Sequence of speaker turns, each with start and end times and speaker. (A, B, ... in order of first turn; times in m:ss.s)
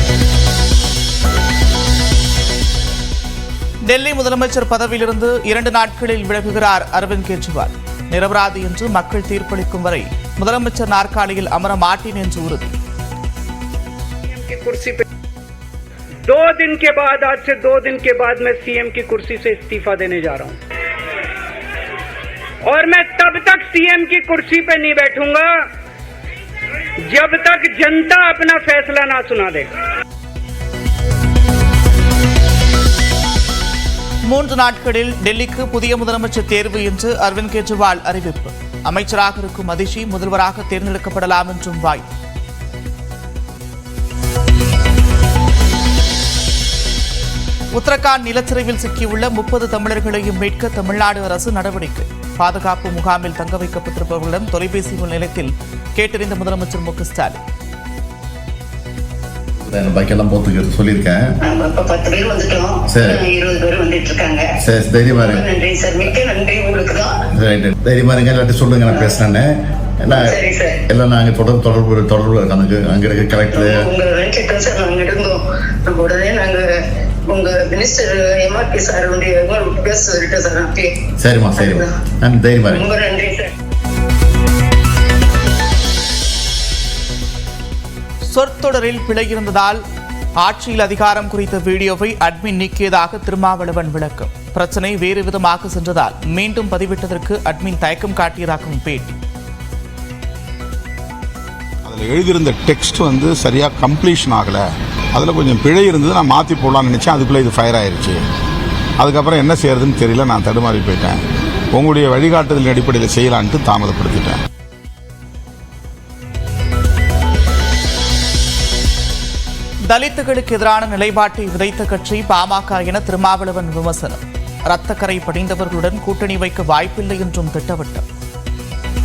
0:03.9-0:12.8 A
0:14.3-0:15.0 B
0:16.2-0:20.6 B
0:22.6-0:25.7 B
0:27.1-0:29.7 B
0:34.3-0:42.1 A
0:47.8-0:57.4 A
0:59.6-1:01.2 C
1:01.4-1:04.5 D
1:02.9-1:03.2 C
1:04.6-1:05.5 C
1:05.2-1:07.2 D
1:07.3-1:09.5 C
1:10.0-1:13.9 C
1:10.1-1:10.8 D
1:13.5-1:16.7 D
1:17.3-1:21.0 D
1:21.2-1:22.9 C
1:21.6-1:22.0 D
1:22.7-1:23.5 D
1:28.3-1:29.8 A
1:30.4-1:39.2 A
1:41.8-1:48.2 E
1:49.0-1:51.2 E
1:51.7-1:54.4 E
1:59.9-2:08.0 A